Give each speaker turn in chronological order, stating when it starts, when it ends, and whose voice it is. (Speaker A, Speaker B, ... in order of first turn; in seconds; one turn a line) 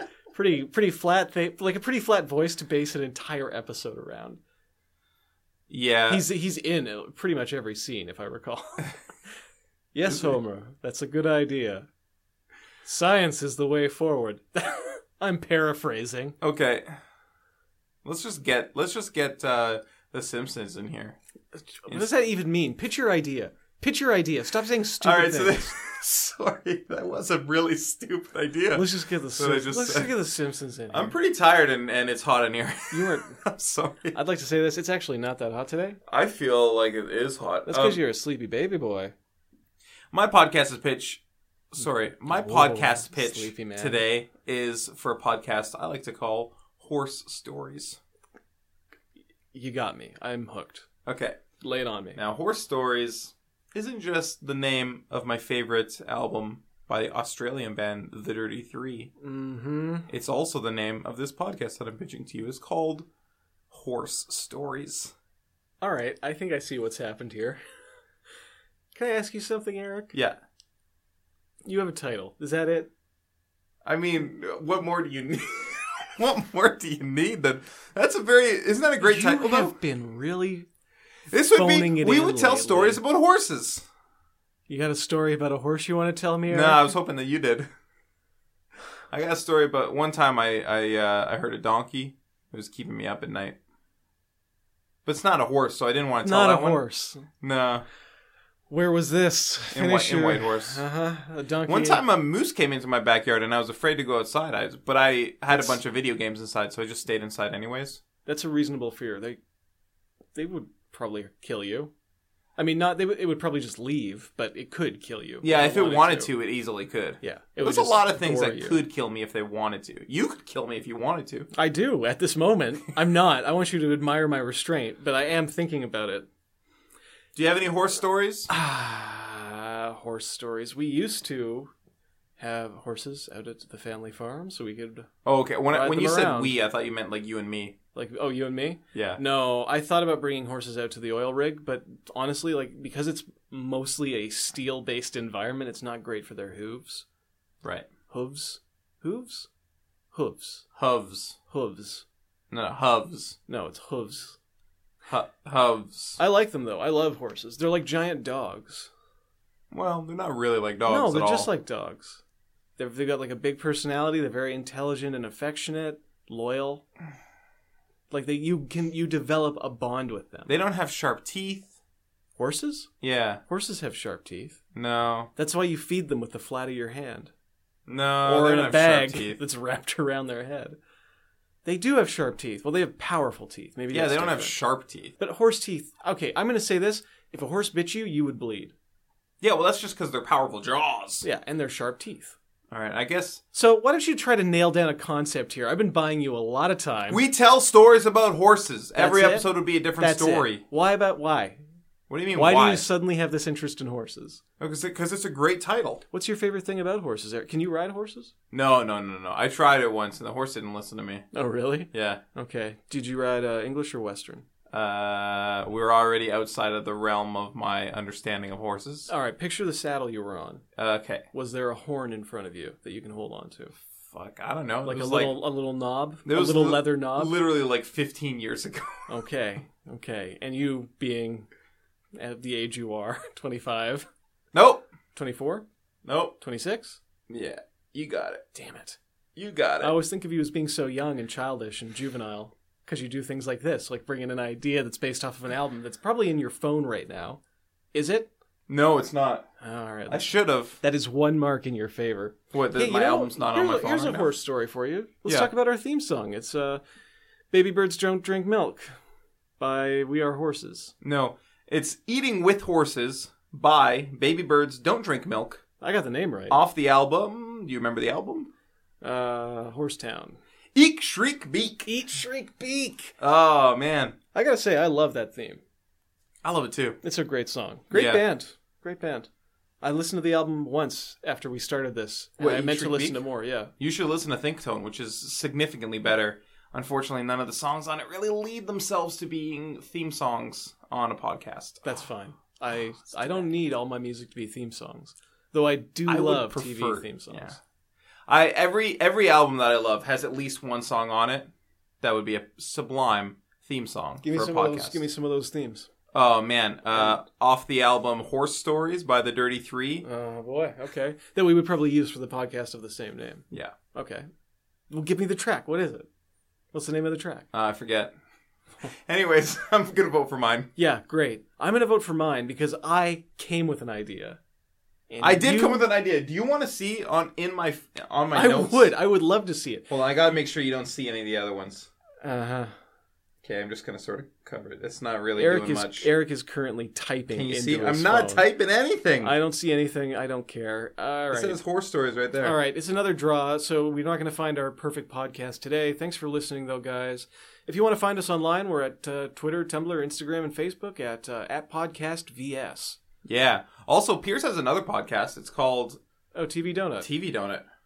Speaker A: 0.3-4.4
Speaker B: 5.7-6.2
Speaker A: 6.1-9.0
Speaker A: 9.9-11.9
Speaker B: 10.1-10.3
Speaker A: 12.8-16.4
Speaker B: 16.4-17.0
Speaker B: 18.0-21.2
Speaker A: 21.8-25.7
Speaker B: 25.0-30.1
Speaker A: 28.7-31.1
Speaker B: 30.9-34.1
Speaker A: 32.9-33.4
Speaker A: 34.1-36.0
Speaker B: 36.1-38.0
Speaker A: 37.6-39.1
Speaker B: 40.1-41.2
Speaker B: 41.7-48.0
Speaker A: 42.3-44.0
Speaker A: 49.5-50.9
Speaker B: 51.0-51.4
Speaker A: 51.6-52.2
Speaker B: 52.1-59.1
Speaker A: 59.2-60.1
Speaker B: 60.1-63.0
Speaker B: 63.7-65.1
Speaker A: 65.8-67.6
Speaker A: 68.9-70.1
Speaker B: 70.1-70.4
Speaker A: 71.7-72.9
Speaker B: 73.8-79.7
Speaker A: 79.0-80.7
Speaker B: 81.3-83.9
Speaker A: 81.5-83.0
Speaker A: 84.7-86.9
Speaker B: 86.5-87.7
Speaker B: 89.1-93.6
Speaker B: 95.0-96.8
Speaker A: 96.2-97.3
Speaker B: 97.4-97.8
Speaker A: 98.7-102.0
Speaker B: 99.7-100.8
Speaker B: 101.7-108.0
Speaker A: 108.2-109.4
Speaker A: 110.3-111.9
Speaker A: 112.6-116.3
Speaker B: 115.4-121.5
Speaker A: 117.2-118.8
Speaker A: 121.5-126.3
Speaker B: 127.3-128.5
Speaker A: 128.5-131.7
Speaker A: 132.4-135.1
Speaker B: 135.2-137.7
Speaker A: 135.7-136.6
Speaker A: 137.9-147.1
Speaker B: 138.9-139.2
Speaker A: 148.1-149.5
Speaker A: 150.1-150.7
Speaker B: 150.8-151.4
Speaker A: 151.5-152.0
Speaker B: 152.5-153.3
Speaker A: 153.5-154.4
Speaker B: 155.1-156.2
Speaker A: 156.2-158.9
Speaker B: 159.7-161.5
Speaker A: 160.9-162.2
Speaker A: 162.8-166.8
Speaker A: 168.1-170.5
Speaker B: 170.4-171.7
Speaker A: 172.3-172.9
Speaker B: 173.0-173.4
Speaker A: 173.5-174.6
Speaker B: 174.7-175.3
Speaker A: 175.3-177.3
Speaker B: 177.9-179.4
Speaker A: 178.2-180.8
Speaker A: 181.6-184.6
Speaker B: 183.9-185.1
Speaker A: 185.2-188.7
Speaker B: 189.4-191.2
Speaker A: 191.2-192.3
Speaker B: 192.7-193.4
Speaker A: 193.5-197.2
Speaker B: 197.1-200.6
Speaker A: 198.9-201.6
Speaker B: 202.1-202.8
Speaker A: 202.3-204.4
Speaker B: 204.6-206.0
Speaker A: 206.1-208.3
Speaker B: 208.5-211.2
Speaker A: 211.3-214.4
Speaker B: 211.9-212.2
Speaker B: 214.7-219.1
Speaker A: 219.1-220.6
Speaker B: 220.8-221.2
Speaker A: 221.3-223.7
Speaker B: 224.0-225.4
Speaker A: 224.8-227.3
Speaker B: 226.2-229.1
Speaker A: 229.1-231.5
Speaker A: 232.1-234.1
Speaker B: 234.5-234.9
Speaker A: 235.1-235.6
Speaker B: 236.0-236.3
Speaker A: 236.4-237.0
Speaker B: 237.3-238.4
Speaker A: 238.5-239.0
Speaker B: 239.3-240.0
Speaker A: 239.8-247.4
Speaker A: 247.9-248.3
Speaker B: 248.7-249.5
Speaker A: 249.6-256.8
Speaker B: 250.1-250.8
Speaker B: 252.5-254.3
Speaker A: 257.5-258.9
Speaker A: 259.6-260.9
Speaker B: 261.0-265.6
Speaker A: 265.8-266.6
Speaker B: 266.5-268.5
Speaker A: 269.0-270.4
Speaker B: 270.7-271.9
Speaker A: 271.9-273.1
Speaker B: 273.2-274.1
Speaker A: 274.3-275.6
Speaker B: 276.4-277.0
Speaker A: 277.0-279.3
Speaker B: 277.9-278.2
Speaker A: 279.8-283.7
Speaker B: 282.4-283.2
Speaker B: 283.8-292.0
Speaker A: 291.8-297.6
Speaker B: 296.1-297.6
Speaker B: 298.3-301.5
Speaker B: 302.0-305.0
Speaker A: 304.2-305.9
Speaker B: 306.1-310.0
Speaker A: 310.0-314.2
Speaker A: 314.9-316.1
Speaker A: 316.7-317.5
Speaker B: 317.5-318.1
Speaker B: 318.9-320.7
Speaker A: 320.8-324.4
Speaker A: 325.1-325.9
Speaker B: 325.2-328.9
Speaker A: 328.3-329.9
Speaker B: 329.9-331.9
Speaker A: 332.2-332.7
Speaker B: 333.4-336.1
Speaker A: 335.4-338.4
Speaker B: 337.3-339.3
Speaker A: 339.2-341.6
Speaker B: 341.3-342.6
Speaker A: 342.4-353.0
Speaker B: 353.2-356.0
Speaker A: 356.3-357.1
Speaker B: 357.0-357.6